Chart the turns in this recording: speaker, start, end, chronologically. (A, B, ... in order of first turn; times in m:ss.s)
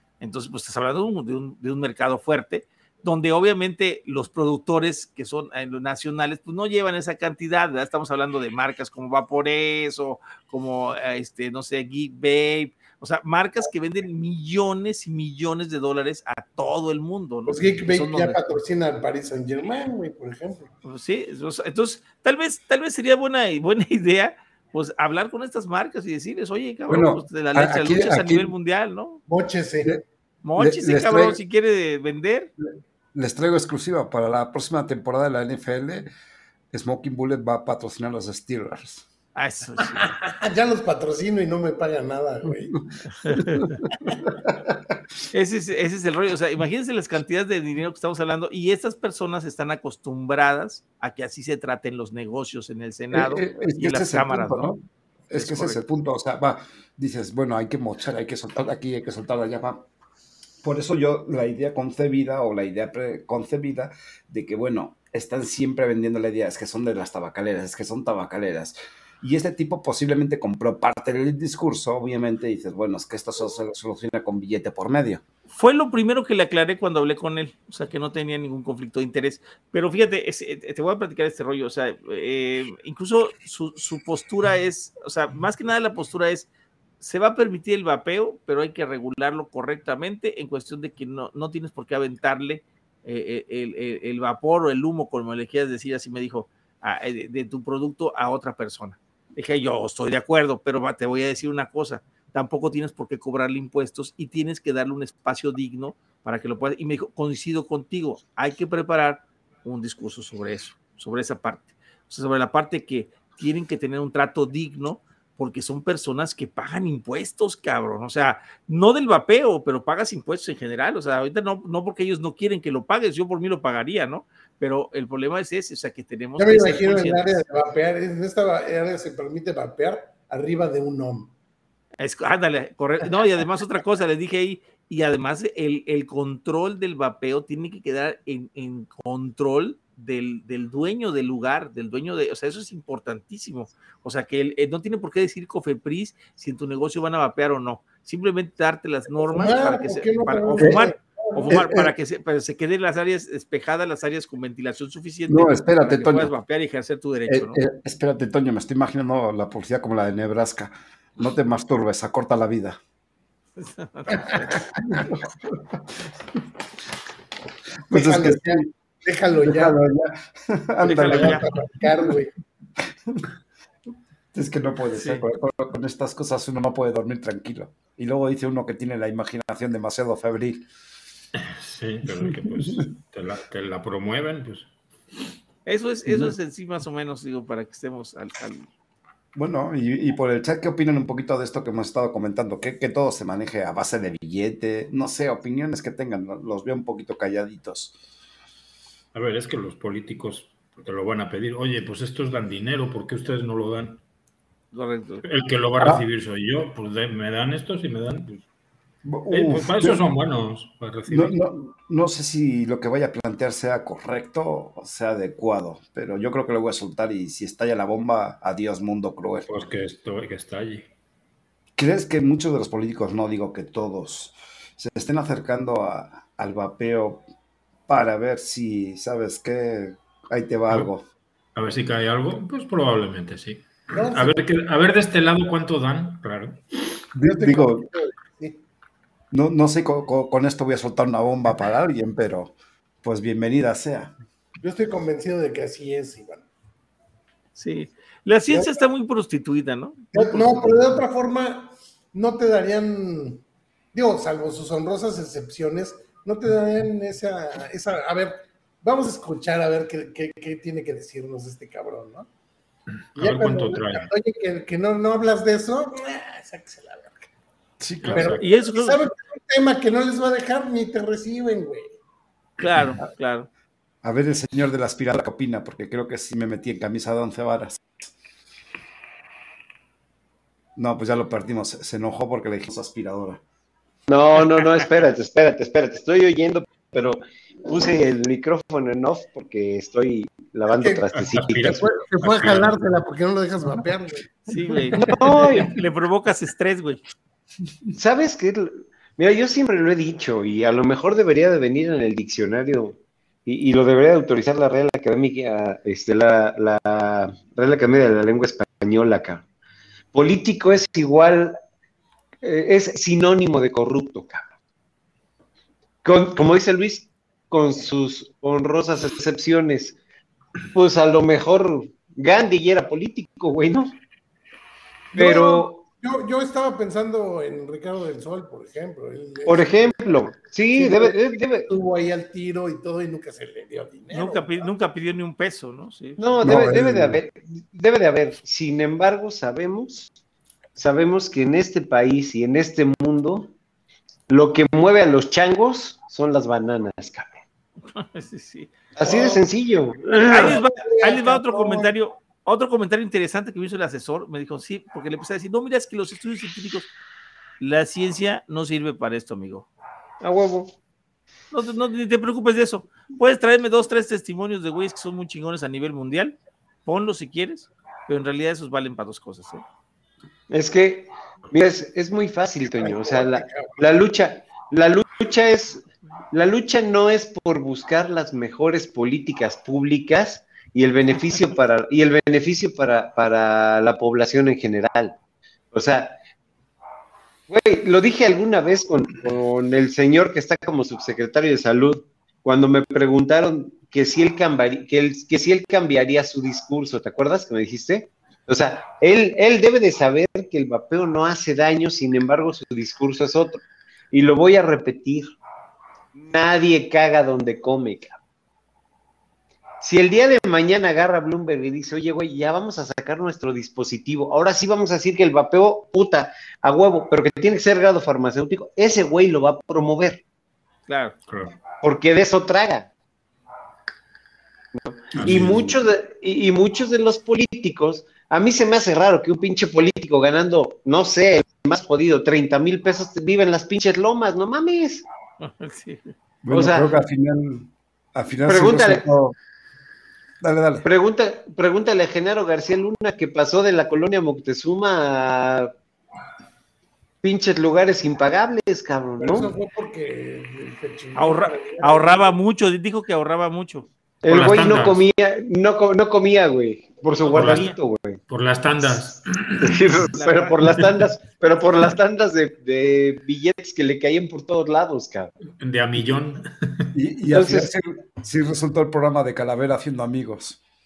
0:00.2-0:18.6 A
0:17.5-0:20.7 B
0:20.8-0:29.2 A
0:26.9-0:28.5 C
0:29.3-0:30.0 B
0:30.4-0:32.5 A
0:30.6-0:31.4 C
0:33.1-0:36.1 C
0:36.7-0:39.1 C
0:39.3-0:40.1 A
0:40.0-0:42.8 B
0:42.6-0:44.8 C
0:43.2-0:43.7 A
0:45.3-0:54.7 A
0:53.1-0:59.8 C
0:55.3-0:55.8 A
1:00.6-1:15.2 C
1:15.5-1:26.5 A
1:27.0-2:07.4 A
2:06.4-2:11.3 B
2:12.0-2:37.6 A
2:29.2-2:31.5 B
2:30.6-2:30.8 C
2:31.5-2:31.9 C
2:35.3-2:36.3 C
2:37.3-2:42.8 C
2:43.6-2:44.4 A
2:44.7-2:45.8 C
2:47.9-2:48.7 C
2:47.9-2:49.8 B
2:49.4-2:51.5 C
2:50.8-2:51.5 A
2:51.0-2:52.3 B
2:54.3-3:00.6 C
2:55.0-2:55.2 A
3:01.4-3:04.7 D
3:05.6-3:08.7 A
3:09.3-3:18.0 C
3:19.1-3:24.0 D
3:24.7-3:25.2 A
3:25.2-3:28.4 D
3:25.8-3:26.0 C
3:29.0-3:30.0 C
3:29.3-3:31.4 D
3:31.1-3:39.5 C
3:39.5-3:40.9 D
3:41.8-3:47.2 C
3:47.9-3:51.0 C
3:51.5-3:56.6 D
3:53.9-3:54.4 B
3:57.1-3:57.9 C
3:57.2-3:58.6 B
3:59.3-4:04.1 C
4:04.6-4:06.4 B
4:07.6-4:10.9 A
4:08.5-4:08.8 B
4:10.1-4:13.4 B
4:13.9-4:22.3 B
4:23.1-4:24.1 D
4:23.2-4:27.3 B
4:27.8-4:28.4 C
4:28.0-4:28.4 D
4:28.1-4:31.9 B
4:28.4-4:29.0 A
4:32.6-4:33.5 A
4:34.0-4:37.8 C
4:40.8-4:43.4 C
4:44.1-4:51.8 E
4:50.7-4:51.0 B
4:51.1-4:52.7 D
4:51.6-4:54.3 B
4:54.5-4:57.0 A
4:55.0-4:55.7 E
4:58.0-5:09.4 E
5:10.1-5:11.6 E
5:12.4-5:14.4 E
5:16.0-5:20.0 E
5:20.7-5:24.0 E
5:25.1-5:25.8 E
5:25.1-5:30.1 B
5:29.4-5:31.7 E
5:30.7-5:34.6 B
5:34.1-5:36.2 A
5:36.2-5:40.1 E
5:36.4-5:37.2 C
5:40.8-5:43.5 E
5:44.3-5:47.4 E
5:47.9-5:48.7 A
5:48.9-5:50.6 E
5:49.0-5:49.4 B
5:50.2-5:56.9 A
5:50.4-5:51.9 B
5:57.6-5:59.7 A
6:00.2-6:00.7 E
6:01.5-6:09.6 A
6:10.5-6:25.2 E
6:12.7-6:13.8 B
6:25.7-6:26.2 E
6:27.5-6:45.3 E
6:46.1-6:48.2 E
6:49.8-7:00.2 E
7:00.9-7:01.1 A
7:01.3-7:01.6 D
7:01.8-7:02.9 E
7:04.7-7:15.0 E
7:05.2-7:05.7 D
7:05.2-7:05.7 C
7:15.4-7:16.1 A
7:16.4-7:19.3 C
7:16.5-7:16.9 E
7:18.5-7:19.0 E
7:20.4-7:20.9 C
7:20.8-7:25.7 E
7:27.2-7:29.5 E
7:29.2-7:32.3 B
7:31.2-7:33.9 A
7:34.2-7:38.2 E
7:34.3-7:35.0 D
7:37.2-7:37.7 A
7:37.3-7:37.7 D
7:38.3-7:40.1 D
7:39.6-7:45.3 E
7:40.1-7:40.6 A
7:45.6-7:46.9 D
7:46.9-7:50.6 C
7:47.3-7:47.7 E